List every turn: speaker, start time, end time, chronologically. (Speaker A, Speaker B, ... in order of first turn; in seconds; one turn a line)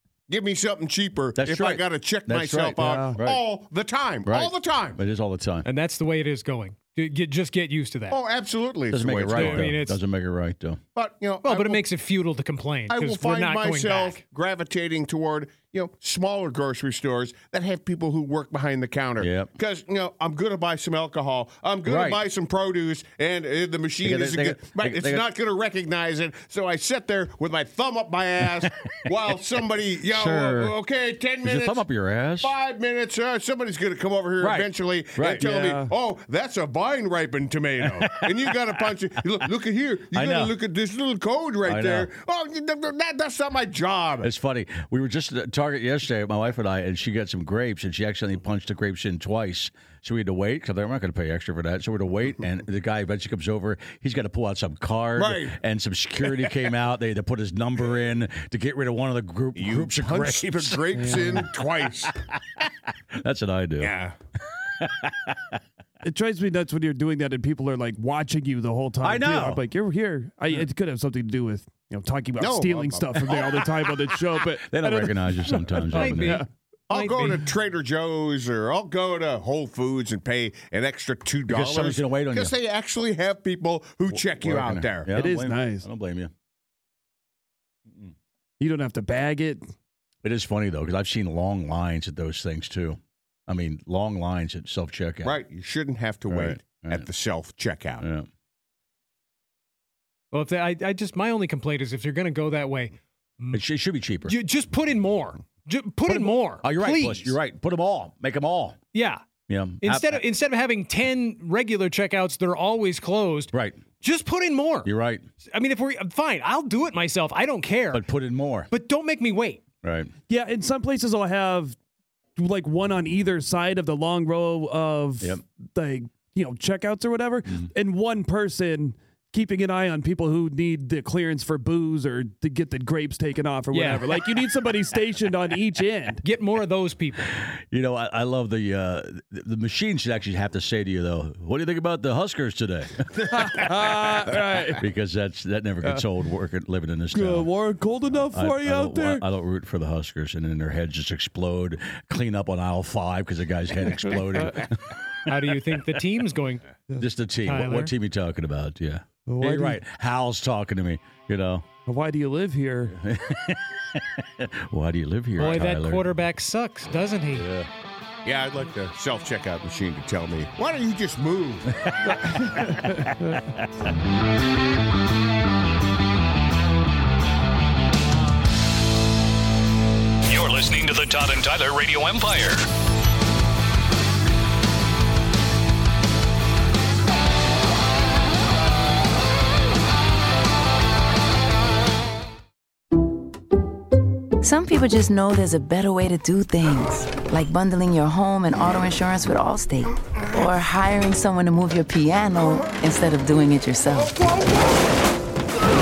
Speaker A: 0.3-5.0
Speaker B: 1.4-3.4
Speaker C: 2.8-3.2
Speaker B: 4.2-5.7
Speaker D: 5.7-8.2
Speaker A: 8.1-9.8
Speaker B: 8.9-10.8
Speaker D: 9.3-10.0
Speaker A: 10.9-11.8
Speaker D: 11.4-14.2
Speaker A: 12.9-31.8
Speaker B: 19.2-19.5
Speaker B: 21.8-22.2
Speaker B: 24.0-25.3
Speaker B: 28.6-28.9
Speaker B: 30.1-30.8
Speaker B: 31.4-32.5
Speaker A: 32.4-44.3
Speaker B: 34.4-35.5
Speaker C: 35.4-35.9
Speaker B: 37.8-38.7
Speaker B: 40.1-40.5
Speaker B: 41.6-42.1
Speaker B: 44.2-61.4
Speaker A: 55.2-55.6
Speaker A: 59.5-62.2
Speaker C: 60.9-61.5
Speaker B: 62.6-63.9
Speaker A: 63.8-64.2
Speaker B: 64.6-65.6
Speaker C: 66.0-76.5
Speaker B: 69.0-69.6
Speaker A: 72.4-73.9
Speaker B: 74.5-76.5
Speaker D: 75.9-77.5
Speaker A: 76.9-85.1
Speaker B: 81.5-82.5
Speaker B: 84.1-86.3
Speaker C: 85.1-85.9
Speaker C: 88.6-89.7
Speaker B: 90.2-95.4
Speaker A: 95.2-98.0
Speaker B: 96.3-97.1
Speaker B: 98.0-98.3
Speaker D: 100.3-103.6
Speaker B: 103.5-104.4
Speaker D: 104.3-107.4
Speaker B: 106.1-108.8
Speaker D: 108.9-109.3
Speaker B: 109.5-110.2
Speaker D: 109.8-114.9
Speaker B: 113.5-113.8
Speaker B: 114.8-115.2
Speaker D: 115.5-118.0
Speaker B: 117.9-118.7
Speaker D: 118.7-119.6
Speaker B: 119.8-120.1
Speaker C: 120.3-121.8
Speaker C: 122.4-136.2
Speaker D: 133.7-134.2
Speaker D: 136.2-137.3
Speaker B: 137.3-143.7
Speaker C: 143.2-144.8
Speaker B: 144.8-147.5
Speaker C: 147.1-149.3
Speaker B: 148.3-155.6
Speaker C: 154.1-154.7
Speaker D: 155.3-156.7
Speaker B: 157.0-161.7
Speaker D: 157.4-157.9
Speaker C: 159.3-159.8
Speaker C: 161.9-163.0
Speaker B: 162.9-166.1
Speaker D: 165.4-167.5
Speaker B: 167.3-167.7
Speaker A: 168.2-171.7
Speaker B: 171.8-173.6
Speaker C: 172.1-173.4
Speaker E: 180.3-182.7
Speaker F: 194.4-204.2